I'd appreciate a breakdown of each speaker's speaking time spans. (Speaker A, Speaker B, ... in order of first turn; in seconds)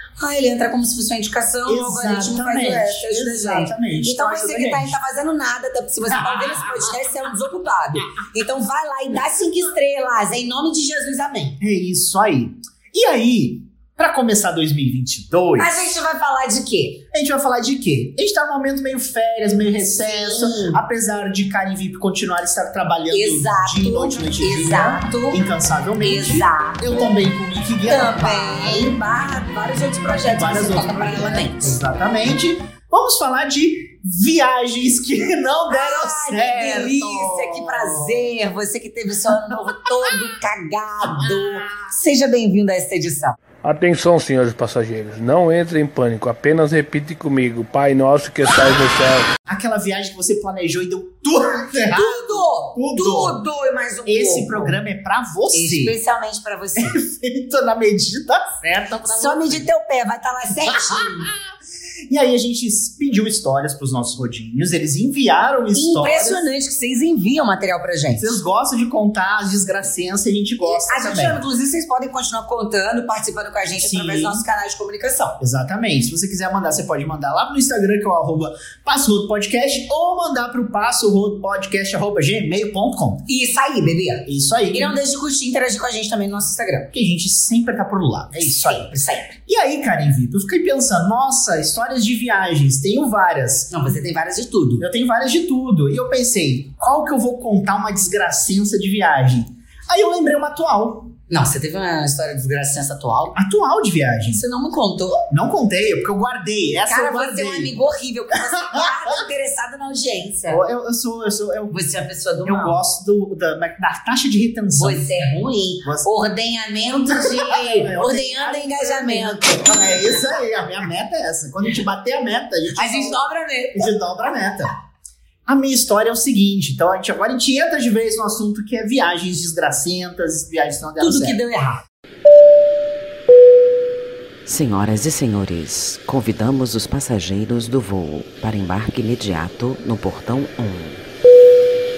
Speaker A: 0.2-11.6, 15.6-17.0, 20.0-20.8, 23.1-25.4, 26.0-26.8, 27.9-31.8, 35.7-43.4, 51.8-54.8, 55.5-57.0, 59.0-61.3, 65.7-68.4, 70.6-75.4, 83.3-86.9, 88.4-89.3, 93.7-94.8, 101.3-103.3, 104.3-105.2, 106.9-110.6, 111.7-112.8, 114.8-119.9, 122.7-123.9, 131.0-131.8
Speaker B: 1.6-5.0, 6.1-6.9, 11.6-15.8, 17.1-29.0, 30.3-38.3, 39.5-39.9, 41.1-41.6, 49.5-53.4, 54.0-56.0, 56.8-59.7, 60.6-61.5, 62.1-66.4, 68.2-71.4, 73.8-74.4, 75.4-83.2, 84.2-85.0, 86.9-93.7, 94.8-101.1, 103.3-104.4, 105.3-107.7, 110.5-111.8, 112.4-115.1, 115.8-116.1, 117.1-124.7, 125.5-131.4
Speaker C: 43.6-49.3
Speaker D: 134.4-141.0